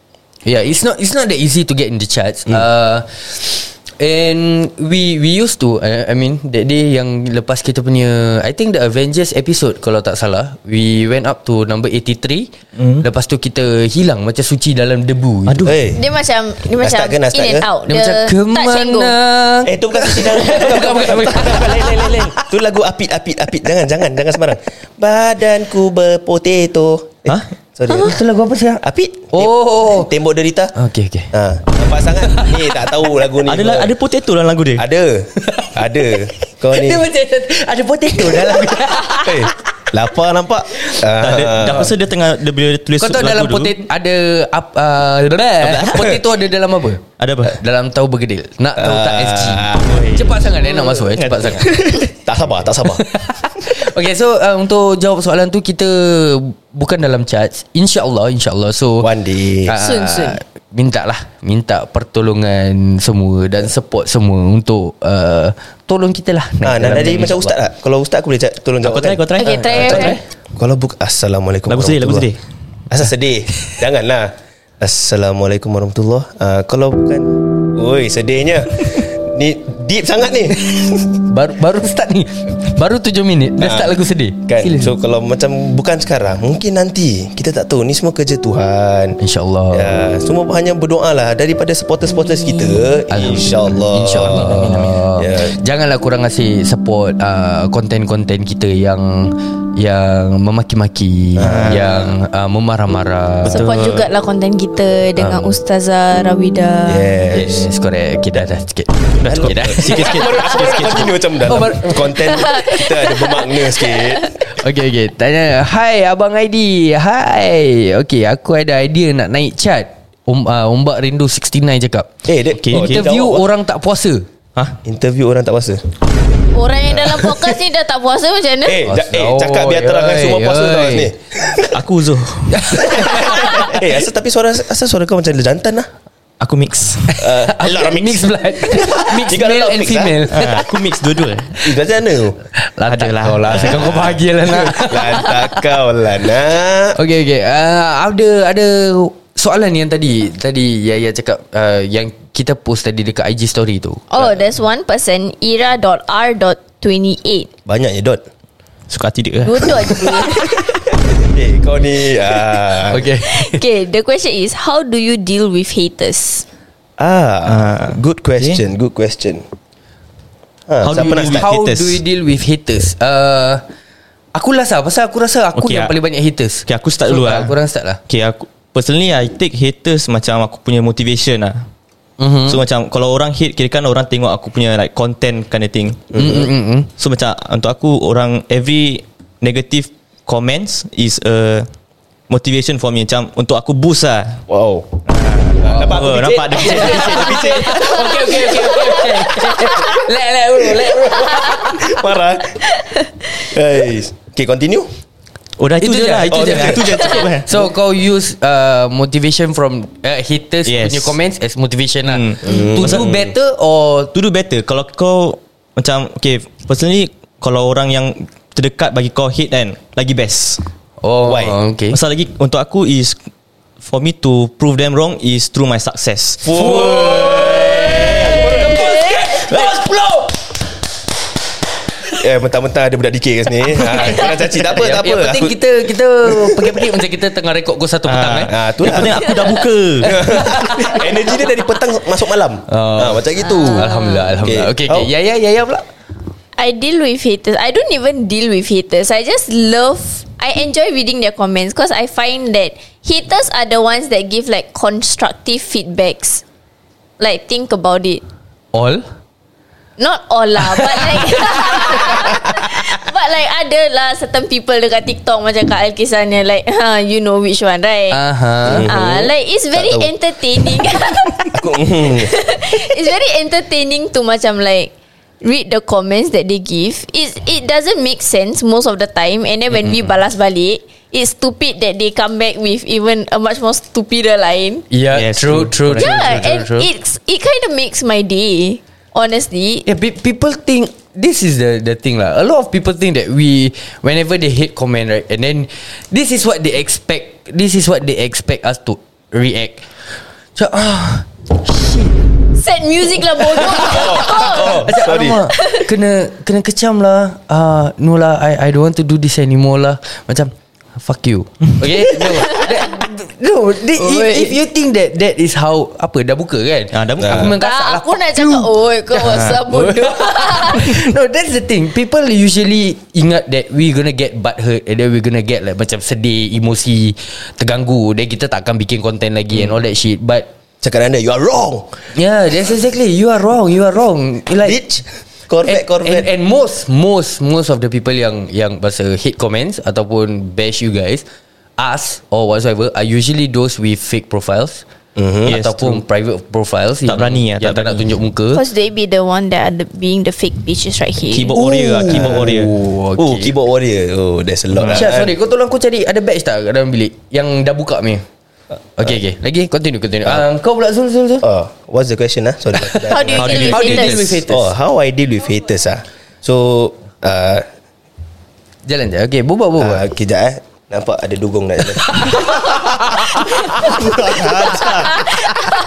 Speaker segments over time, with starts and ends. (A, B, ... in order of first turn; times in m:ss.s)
0:00.4-0:15.7 A
0:12.8-0:13.0 B
0:15.5-0:15.8 B
0:15.6-0:16.0 C
0:15.9-0:19.1 D
0:16.8-0:17.6 C
0:17.9-0:22.2 A
0:19.6-0:28.2 C
0:27.9-0:30.1 A
0:28.8-0:30.7 C
0:30.7-0:31.3 A
0:31.3-0:33.9 C
0:32.3-0:32.6 A
0:33.4-0:34.8 B
0:34.8-0:37.0 C
0:35.4-0:39.5 A
0:39.0-0:41.9 C
0:41.1-0:43.7 B
0:43.0-0:51.8 A
0:45.6-0:46.2 B
0:47.2-0:47.6 B
0:48.8-0:50.1 C
0:49.7-0:51.9 B
0:51.5-0:53.0 C
0:52.9-0:59.1 A
0:59.0-0:59.7 C
0:59.6-1:07.5 A
0:59.8-1:00.4 D
1:06.6-1:12.3 C
1:08.8-1:10.2 B
1:09.4-1:10.2 D
1:11.7-1:12.4 B
1:12.9-1:21.1 C
1:21.2-1:24.9 A
1:23.6-1:23.9 C
1:24.4-1:29.2 C
1:29.2-1:29.9 A
1:29.7-1:35.5 C
1:33.1-1:43.6 A
1:34.2-1:34.9 B
1:41.4-1:41.8 C
1:41.4-1:42.0 B
1:43.4-1:44.0 B
1:43.5-1:47.1 D
1:45.2-1:45.6 A
1:46.9-1:47.7 C
1:47.3-1:50.8 A
1:49.2-1:51.1 B
1:49.2-1:54.3 C
1:51.4-1:52.5 A
1:52.4-1:54.2 D
1:54.4-2:02.1 A
2:02.2-2:03.4 C
2:02.6-2:03.0 B
2:02.7-2:04.2 A
2:04.8-2:05.8 C
2:06.5-2:08.8 D
2:08.6-2:11.8 C
2:08.9-2:11.1 A
2:11.7-2:13.1 B
2:12.5-2:13.8 A
2:12.7-2:15.9 C
2:16.4-2:17.1 B
2:17.1-2:20.7 A
2:17.2-2:20.4 C
2:20.3-2:21.8 B
2:21.6-2:22.4 C
2:22.6-2:25.6 A
2:22.9-2:24.1 B
2:23.5-2:27.0 C
2:26.9-2:34.0 A
2:34.1-2:37.5 D
2:37.6-2:38.2 C
2:38.9-2:40.0 B
2:39.4-2:40.6 D
2:39.9-2:40.5 A
2:40.6-2:43.1 C
2:42.8-2:43.6 A
2:43.2-2:46.4 D
2:47.0-2:49.4 C
2:47.5-2:48.6 B
2:50.7-2:52.0 C
2:50.8-2:51.6 B
2:50.9-2:53.6 A
2:54.3-2:58.0 A
2:55.6-2:55.9 B
2:56.7-2:57.5 B
2:58.1-3:01.6 B
3:02.2-3:02.6 A
3:02.4-3:06.1 B
3:06.1-3:06.5 C
3:06.2-3:06.9 A
3:07.0-3:11.7 B
3:12.3-3:14.4 B
3:14.5-3:15.0 C
3:15.0-3:17.6 B
3:15.6-3:19.7 C
3:15.6-3:15.9 A
3:16.5-3:21.9 A
3:20.8-3:22.6 C
3:23.4-3:24.9 C
3:25.6-3:27.5 B
3:25.8-3:34.1 A
3:26.3-3:27.6 C
3:30.6-3:31.2 B
3:32.0-3:33.2 B
3:32.4-3:33.2 C
3:34.1-3:40.6 B
3:41.0-3:42.0 A
3:41.2-3:41.6 C
3:41.9-3:43.2 B
3:43.8-3:47.2 B
3:46.4-3:49.6 C
3:46.5-3:50.4 A
3:47.9-3:48.4 B
3:52.1-3:55.6 C
3:53.8-3:58.5 A
3:56.2-3:57.0 C
3:58.0-4:00.1 B
3:58.5-4:05.1 C
4:00.0-4:01.0 A
4:02.7-4:05.9 A
4:03.5-4:04.3 D
4:06.6-4:16.4 D
4:17.2-4:18.2 D
4:18.7-4:19.1 A
4:20.0-4:28.2 D
4:20.8-4:22.8 A
4:28.1-4:28.9 A
4:28.6-4:30.1 C
4:28.8-4:34.9 D
4:31.5-4:32.3 C
4:35.4-4:44.8 D
4:44.9-4:46.9 A
4:45.1-4:46.4 B
4:46.0-4:49.8 D
4:49.8-4:59.8 A
5:00.6-5:02.2 A
5:02.6-5:04.9 D
5:03.4-5:30.5 A
5:03.8-5:05.4 C
5:05.5-5:05.9 D
5:12.4-5:12.8 D
5:14.0-5:14.6 D
5:16.9-5:17.5 B
5:17.2-5:17.5 C
5:17.6-5:21.0 D
5:30.8-5:32.0 C
5:32.1-5:34.8 A
5:34.6-5:36.3 C
5:35.6-5:41.2 A
5:41.8-5:44.8 A
5:45.2-5:45.6 C
5:45.5-5:46.0 B
5:45.5-5:48.6 A
5:47.0-5:48.1 B
5:48.5-5:51.6 D
5:51.3-5:52.7 B
5:51.5-5:53.5 A
5:52.0-5:52.6 C
5:53.2-5:55.3 C
5:54.7-5:55.0 B
5:54.9-5:58.2 A
5:59.0-6:01.4 A
6:01.4-6:07.6 C
6:02.8-6:04.7 A
6:03.1-6:04.2 D
6:03.4-6:04.2 B
6:08.8-6:10.1 A
6:09.8-6:15.2 C
6:12.0-6:14.2 A
6:14.0-6:15.2 B